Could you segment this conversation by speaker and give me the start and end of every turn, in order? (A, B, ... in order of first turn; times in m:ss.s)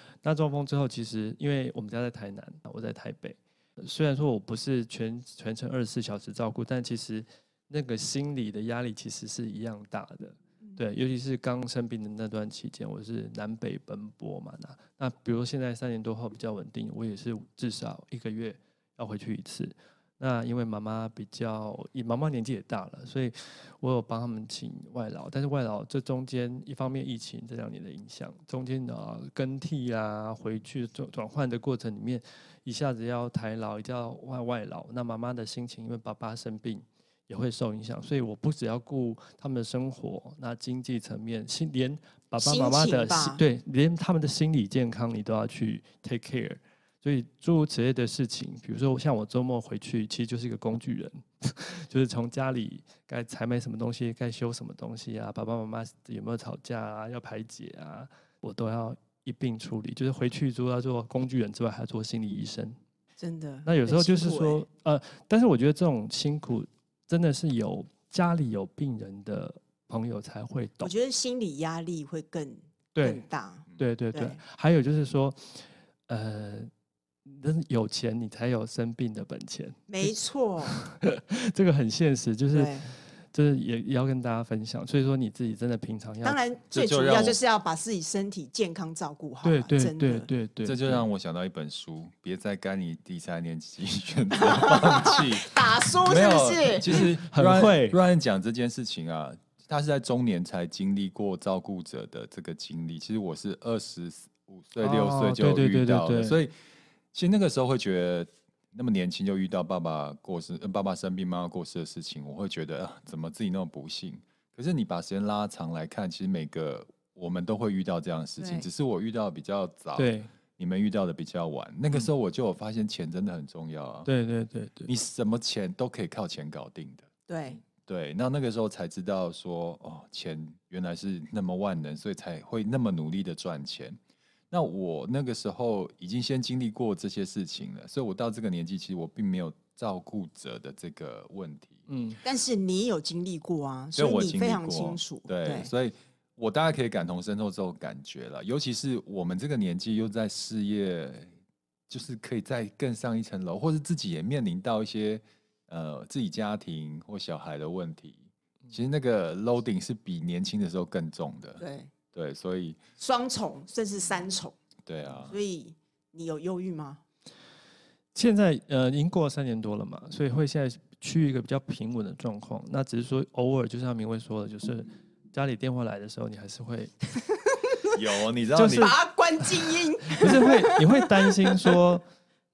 0:00.2-1:02.8 A
0:42.4-0:43.4 B
1:03.2-1:04.6 B
1:03.7-1:10.9 A
1:10.8-1:14.4 B
1:13.0-1:13.2 A
1:13.8-1:16.7 A
1:17.3-1:20.1 A
1:19.9-1:20.8 B
1:20.7-1:26.4 A
1:22.5-1:22.9 B
1:26.2-1:30.3 B
1:26.7-1:27.4 C
1:29.4-1:31.0 A
1:30.6-1:46.5 C
1:34.4-1:37.1 B
1:36.9-1:38.0 A
1:44.8-1:46.4 A
1:47.1-2:04.1 C
1:58.4-1:58.7 B
2:00.0-2:00.3 A
2:04.1-2:04.9 A
2:04.9-2:07.1 C
2:07.3-2:07.6 B
2:07.9-2:14.0 C
2:14.5-2:21.8 C
2:21.9-2:22.2 A
2:22.2-2:25.7 B
2:24.0-2:31.3 C
2:31.9-2:41.6 C
2:41.6-2:41.9 B
2:42.1-2:42.8 C
2:43.0-2:44.6 B
2:44.9-2:45.4 C
2:45.3-2:47.0 B
2:48.2-2:57.1 A
2:57.6-2:58.0 B
2:58.0-2:59.0 C
2:58.5-2:59.0 A
2:58.8-3:01.8 B
3:00.1-3:02.0 A